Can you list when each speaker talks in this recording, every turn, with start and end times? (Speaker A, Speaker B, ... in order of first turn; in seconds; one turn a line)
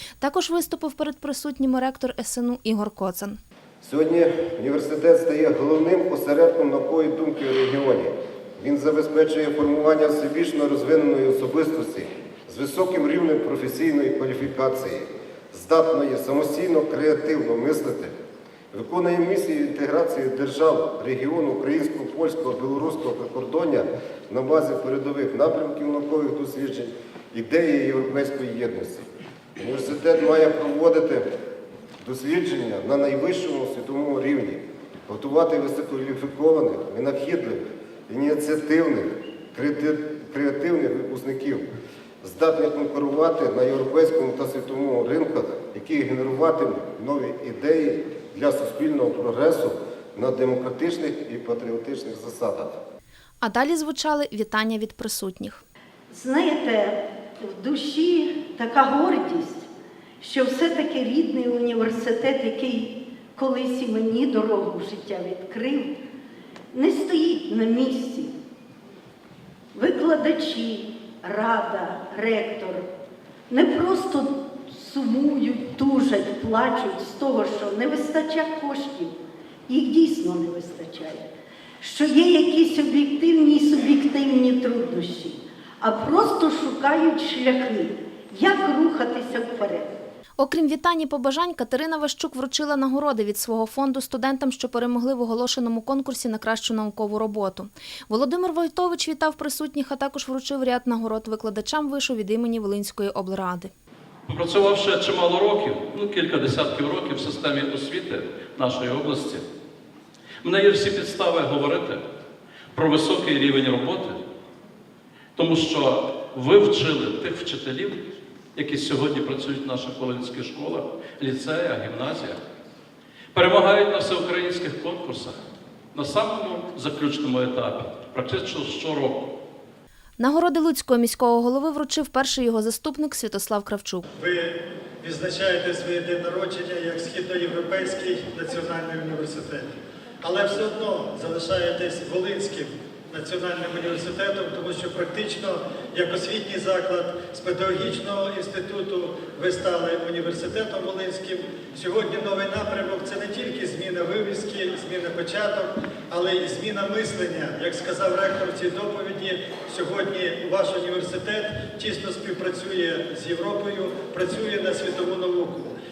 Speaker A: 0.2-3.4
Speaker B: 3.8-18.1
Speaker B: 18.7-31.3
Speaker B: 32.0-41.7
Speaker B: 42.2-52.8
Speaker A: 53.4-55.6
Speaker C: 56.1-59.7
Speaker C: 60.2-66.0
Speaker C: 66.7-68.3
Speaker C: 69.7-72.8
Speaker C: 73.5-79.2
Speaker C: 79.7-81.3
Speaker C: 81.8-89.9
Speaker A: 90.4-103.7
Speaker D: 104.3-109.4
Speaker D: 110.4-112.0
Speaker D: 112.7-114.2
Speaker D: 115.3-118.0
Speaker D: 118.5-122.4
Speaker D: 123.3-125.3
Speaker D: 125.9-129.3
Speaker A: 130.2-134.0
Speaker E: 134.2-139.7
Speaker E: 140.2-165.7